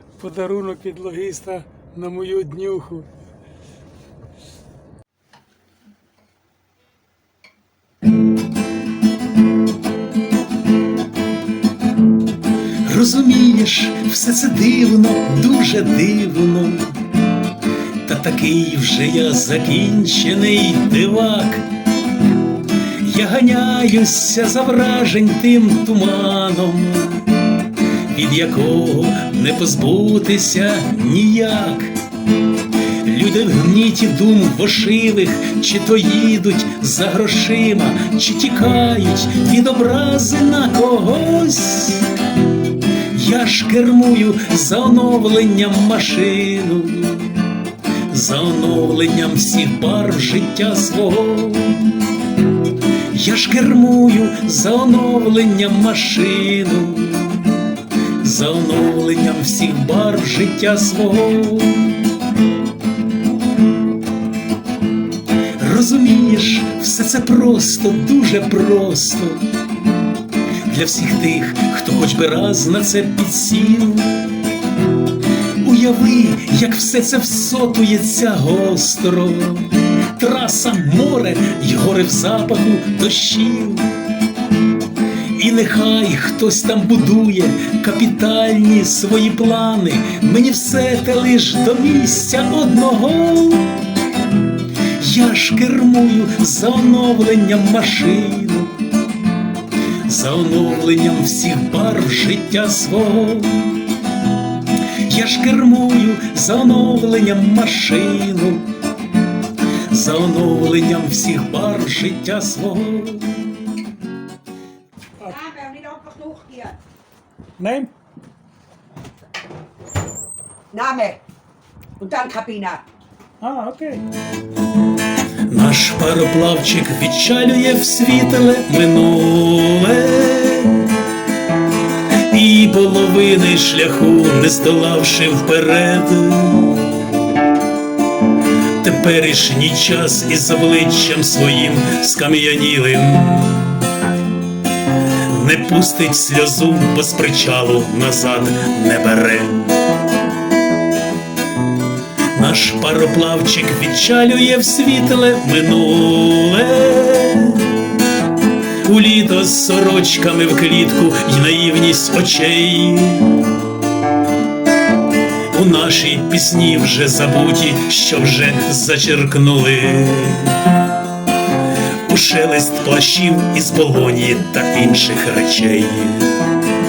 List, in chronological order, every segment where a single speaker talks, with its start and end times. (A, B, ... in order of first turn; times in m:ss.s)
0:00.2-0:03.1 A
0:12.8-0:17.0 B
0:18.0-0:21.6 B
0:23.0-0:27.4 B
0:28.1-0:31.9 B
0:33.0-0:42.1 B
0:43.1-0:47.4 B
0:48.1-0:52.1 B
0:53.1-0:57.7 B
0:58.2-1:01.9 B
1:05.6-1:09.4 B
1:10.6-1:14.3 B
1:15.6-1:23.9 B
1:25.3-1:33.7 B
1:35.0-1:38.7 B
1:40.0-1:43.8 B
1:45.0-1:48.7 B
1:49.9-1:53.6 B
1:55.3-1:56.8 C
1:57.6-1:57.9 A
2:00.7-2:01.2 C
2:02.0-2:02.8 C
2:03.4-2:04.0 A
2:05.5-2:10.9 B
2:12.2-2:16.8 B
2:18.8-2:23.9 B
2:25.2-2:29.8 B
2:32.3-2:37.7 B
2:38.8-2:43.4 B
2:45.5-2:50.7 B
2:52.0-2:56.4 B